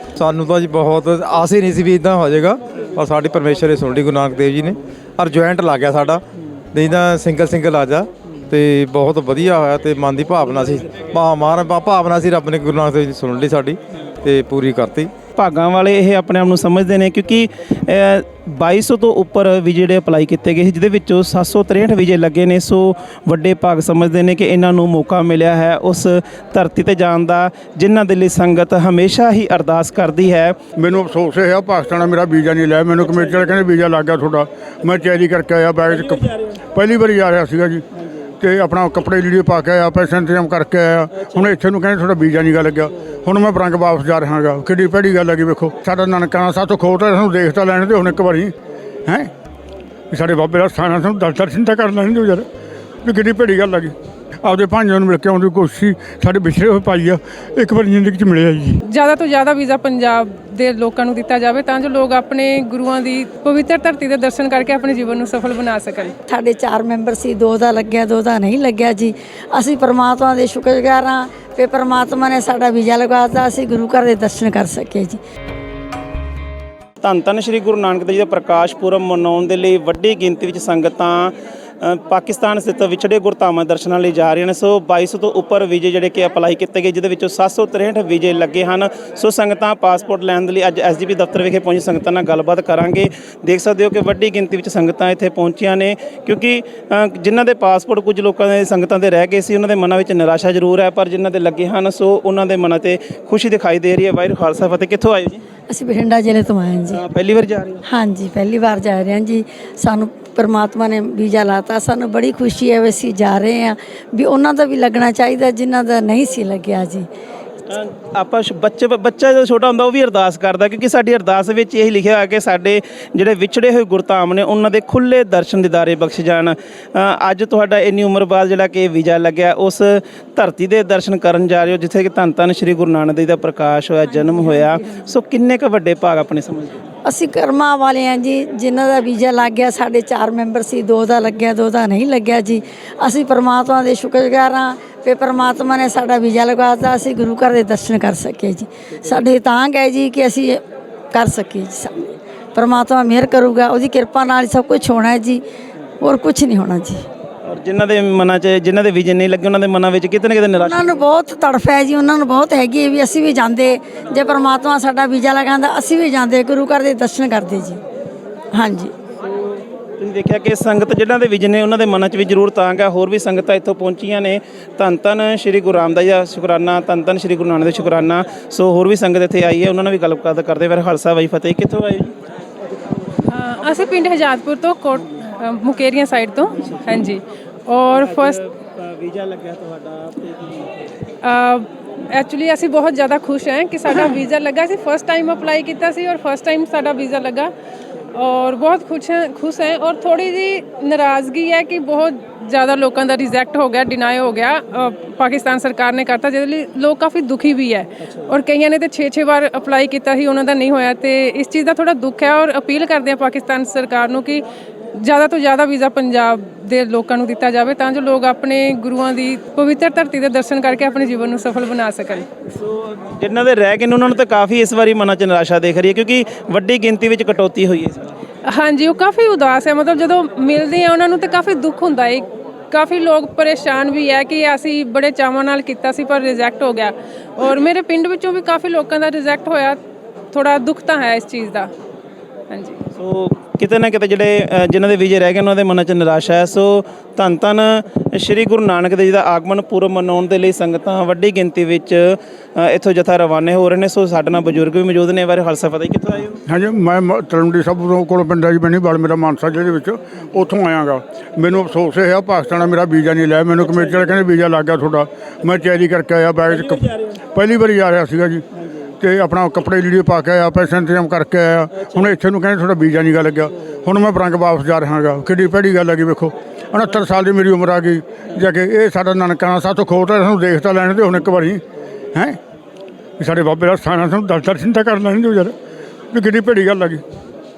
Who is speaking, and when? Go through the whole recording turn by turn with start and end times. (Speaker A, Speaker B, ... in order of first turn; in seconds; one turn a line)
Speaker A: 0.1-15.1
Speaker B: 15.3-30.6
Speaker C: 30.8-37.9
Speaker B: 33.0-33.6
Speaker B: 35.9-36.6
Speaker C: 38.4-48.5
Speaker B: 41.1-41.5
Speaker C: 49.1-49.3
Speaker C: 50.1-52.5
Speaker C: 53.0-58.8
Speaker D: 58.9-66.1
Speaker E: 66.3-75.2
Speaker B: 77.0-105.4
Speaker E: 105.7-107.0
Speaker B: 106.9-107.8
Speaker E: 107.9-117.1
Speaker B: 117.7-136.8
Speaker E: 137.0-155.4
Speaker E: 156.0-157.0
Speaker B: 157.4-160.9
Speaker E: 160.6-167.8
Speaker E: 168.5-168.9
Speaker B: 169.2-182.1
Speaker D: 183.3-188.4
Speaker B: 187.9-190.9
Speaker D: 191.2-197.5
Speaker D: 198.1-214.4
Speaker D: 214.9-222.2
Speaker B: 222.4-228.1
Speaker D: 228.5-239.8
Speaker D: 240.3-241.7
Speaker D: 242.5-242.8
Speaker B: 243.0-256.4
Speaker C: 256.4-268.4
Speaker B: 263.6-264.2
Speaker B: 266.5-267.2
Speaker C: 269.0-281.6
Speaker B: 271.8-272.1
Speaker C: 282.1-282.4
Speaker C: 283.2-285.5
Speaker C: 286.1-287.0